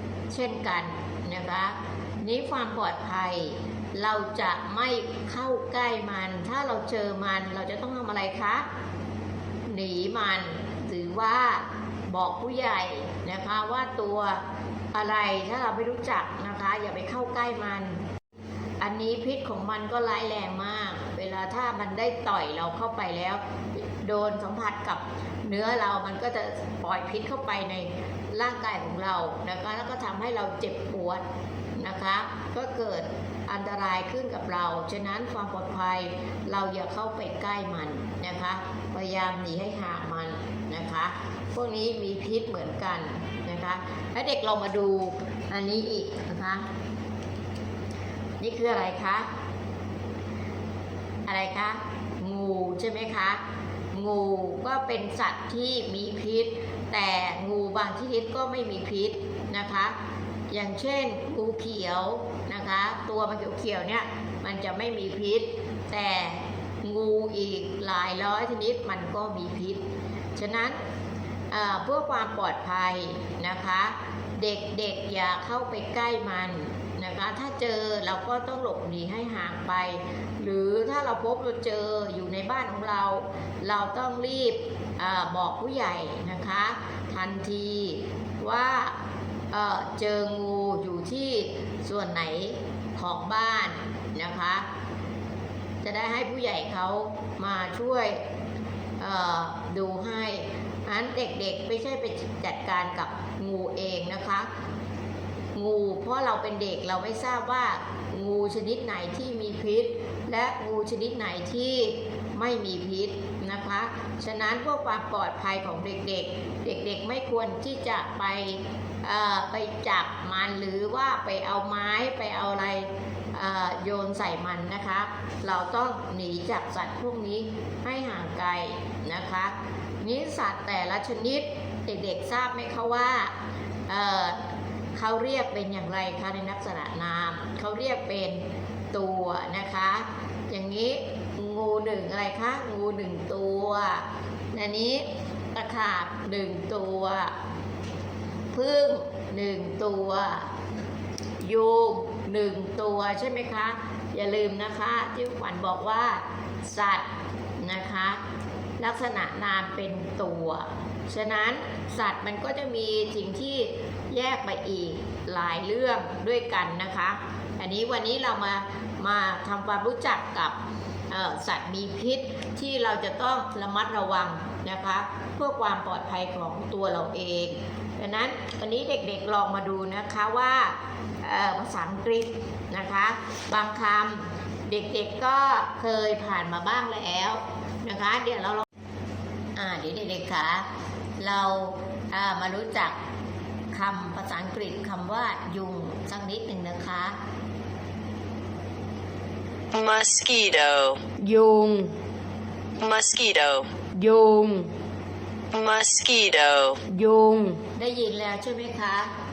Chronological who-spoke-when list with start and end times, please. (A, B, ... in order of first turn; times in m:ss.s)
0:00.3-0:08.6 A
0:09.7-0:14.4 A
0:14.9-0:18.0 A
0:18.8-0:31.2 A
0:31.8-0:46.6 A
0:48.4-0:49.3 A
0:51.3-0:53.4 A
0:53.9-0:59.9 A
1:00.5-1:09.8 A
1:10.3-1:10.8 A
1:11.5-1:28.9 A
1:29.5-1:34.6 A
1:35.8-1:38.2 A
1:39.0-1:44.5 A
1:45.6-2:13.3 A
2:13.9-2:14.4 A
2:14.9-2:18.4 A
2:18.9-2:27.3 A
2:28.5-2:30.5 A
2:31.4-2:37.0 A
2:37.6-2:38.2 A
2:38.8-2:50.5 A
2:51.1-3:08.7 A
3:09.6-3:10.7 A
3:11.2-3:13.0 A
3:13.7-3:17.2 A
3:19.7-3:21.0 B
3:21.2-3:21.9 C
3:22.8-3:23.7 B
3:23.9-3:24.7 C
3:25.5-3:26.8 B
3:26.9-3:27.6 C
3:27.8-3:29.1 A